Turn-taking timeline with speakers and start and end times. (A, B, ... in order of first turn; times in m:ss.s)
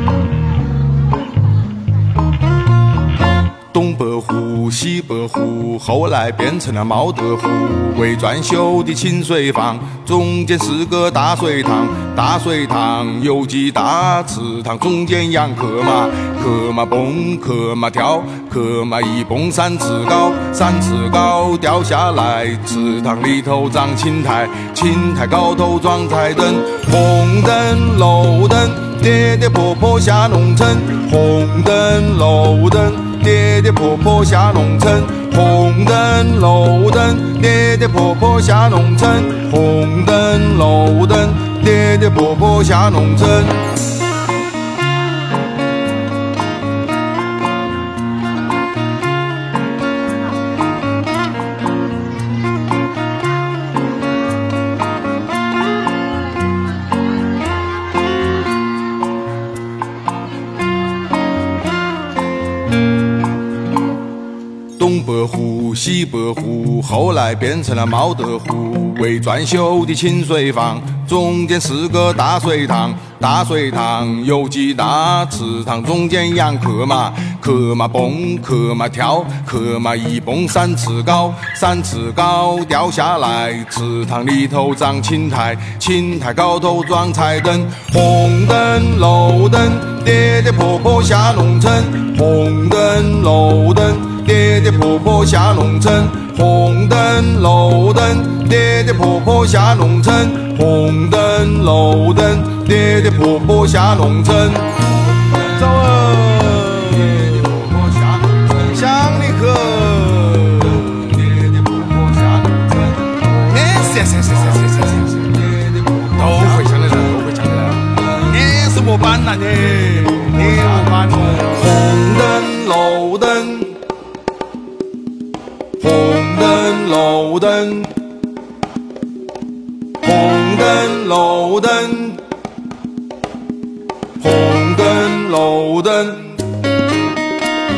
0:03.7-0:43.7 A
1:04.8-2:03.7 A
2:05.8-2:07.9 A
2:10.0-2:12.2 A
2:14.2-2:16.4 A